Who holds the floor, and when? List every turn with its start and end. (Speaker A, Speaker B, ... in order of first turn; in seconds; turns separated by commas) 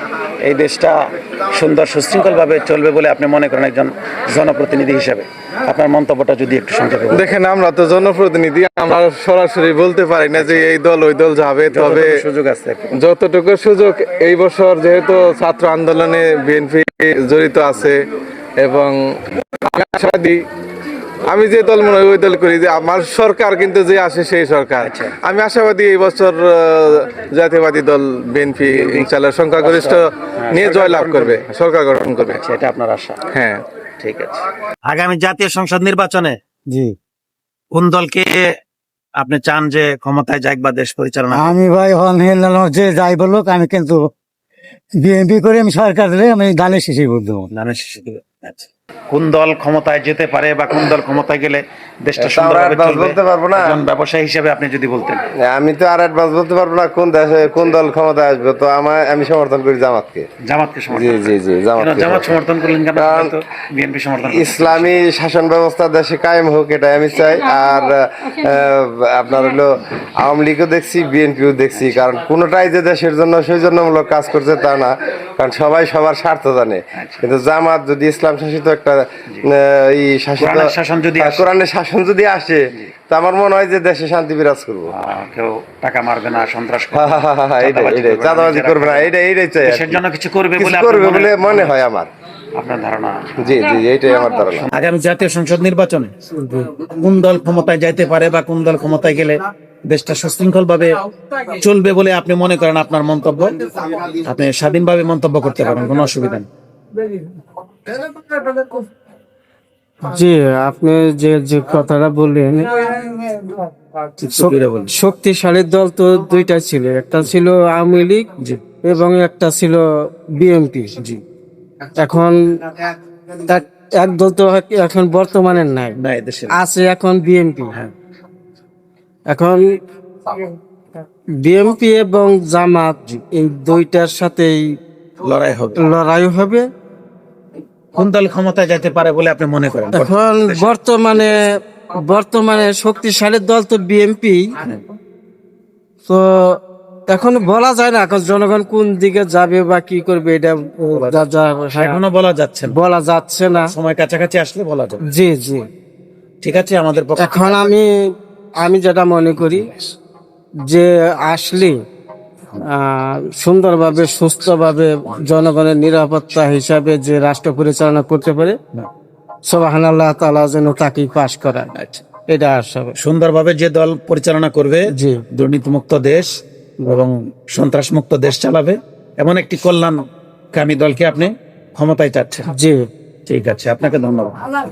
Speaker A: 0.4-0.9, Speaker A: 1.5-7.3, Speaker B: 7.1-12.1, Speaker A: 10.3-10.7, Speaker A: 11.7-13.0, Speaker B: 12.9-18.1, Speaker B: 18.6-19.0, Speaker B: 19.6-20.4, Speaker B: 21.3-32.4, Speaker A: 24.8-25.1, Speaker A: 29.6-31.4, Speaker A: 32.2-33.2, Speaker B: 33.3-33.6, Speaker A: 34.0-36.4, Speaker A: 37.7-38.3, Speaker A: 39.2-41.5, Speaker C: 41.3-44.0, Speaker C: 45.0-47.5, Speaker A: 47.5-55.2, Speaker D: 52.2-53.6, Speaker D: 55.4-60.3, Speaker A: 60.5-65.0, Speaker D: 60.9-62.4, Speaker D: 63.0-63.3, Speaker D: 64.3-84.9, Speaker A: 77.0-77.2, Speaker A: 80.4-81.5, Speaker A: 84.9-89.1, Speaker D: 86.9-90.0, Speaker A: 89.6-91.7, Speaker D: 90.6-92.1, Speaker A: 92.6-93.7, Speaker D: 93.4-94.7, Speaker A: 94.6-96.1, Speaker A: 96.8-101.0, Speaker A: 101.5-103.5, Speaker A: 104.2-106.5, Speaker E: 110.0-113.5, Speaker A: 114.2-114.9, Speaker E: 114.3-118.2, Speaker E: 118.8-119.8, Speaker E: 120.3-120.9, Speaker E: 122.0-122.9, Speaker E: 123.4-126.0, Speaker A: 126.0-126.5, Speaker E: 126.5-127.8, Speaker E: 129.3-129.6, Speaker E: 131.4-134.6, Speaker A: 135.2-135.8, Speaker E: 135.8-136.7, Speaker A: 137.9-140.6, Speaker E: 139.9-144.4, Speaker E: 147.1-152.0, Speaker A: 150.9-151.2, Speaker A: 151.7-152.8, Speaker E: 152.7-153.7, Speaker A: 153.7-155.0, Speaker E: 155.1-155.7, Speaker A: 156.4-157.6, Speaker E: 157.2-157.9, Speaker E: 158.6-159.7, Speaker E: 160.7-161.7, Speaker E: 162.6-168.6, Speaker E: 169.5-171.7, Speaker A: 171.7-172.0, Speaker E: 172.3-172.9, Speaker A: 173.0-176.3, Speaker E: 174.9-175.2, Speaker A: 176.8-180.0, Speaker A: 180.5-182.5, Speaker E: 182.5-182.8, Speaker A: 183.3-184.3